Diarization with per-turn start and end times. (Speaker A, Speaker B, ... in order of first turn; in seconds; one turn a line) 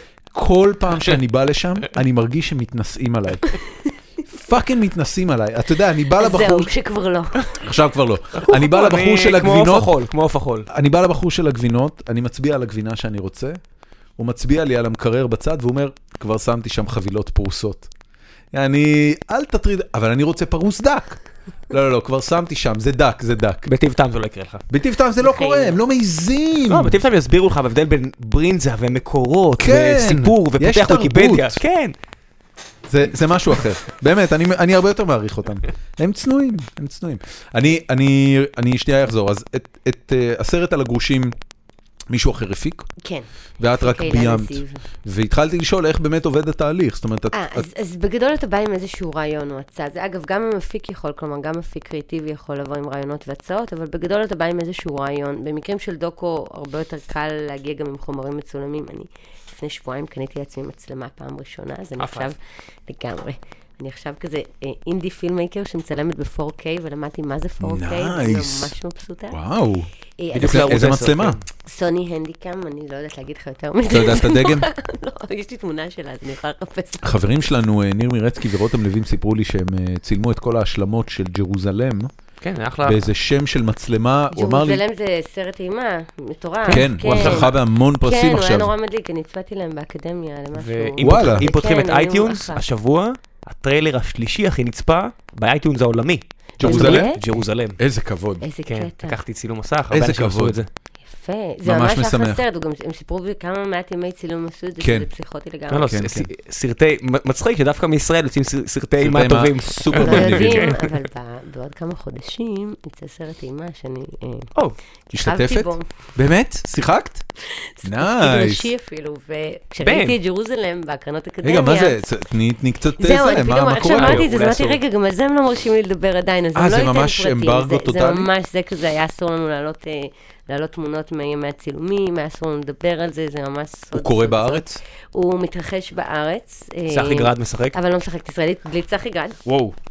Speaker A: 0.3-3.6
Speaker A: 4.3-6.7
Speaker B: 6.2-7.6
Speaker A: 7.6-9.9
Speaker C: 8.3-10.7
Speaker A: 10.7-13.6
Speaker A: 14.2-17.9
Speaker A: 18.5-23.7
Speaker C: 23.6-24.6
Speaker A: 24.7-27.0
Speaker B: 25.2-25.8
Speaker C: 26.7-31.9
Speaker A: 29.6-31.6
Speaker A: 32.9-41.4
Speaker A: 42.1-42.9
Speaker B: 43.0-44.8
Speaker A: 43.6-47.6
Speaker B: 47.3-69.4
Speaker C: 62.0-62.3
Speaker A: 67.6-68.8
Speaker A: 69.3-71.4
Speaker B: 70.2-70.9
Speaker C: 70.3-71.4
Speaker B: 71.7-77.2
Speaker A: 73.9-74.7
Speaker A: 77.0-82.1
Speaker C: 82.4-83.1
Speaker A: 82.8-84.8
Speaker B: 84.3-92.6
Speaker C: 86.7-87.5
Speaker A: 86.7-88.7
Speaker C: 90.5-97.8
Speaker A: 91.0-91.5
Speaker A: 96.6-97.1
Speaker B: 96.6-97.2
Speaker A: 97.8-98.4
Speaker B: 98.4-99.2
Speaker C: 98.7-100.7
Speaker A: 99.9-100.6
Speaker B: 101.1-106.0
Speaker A: 101.6-102.4
Speaker A: 104.8-105.1
Speaker C: 105.7-110.9
Speaker A: 105.8-106.3
Speaker A: 109.0-110.8
Speaker B: 110.0-114.5
Speaker B: 115.1-115.9
Speaker A: 115.1-117.2
Speaker B: 117.5-122.0
Speaker A: 117.8-118.7
Speaker C: 119.8-120.2
Speaker A: 121.4-124.3
Speaker B: 123.0-139.4
Speaker C: 123.8-124.8
Speaker A: 126.5-128.3
Speaker A: 133.9-134.8
Speaker C: 136.9-137.8
Speaker C: 139.5-139.8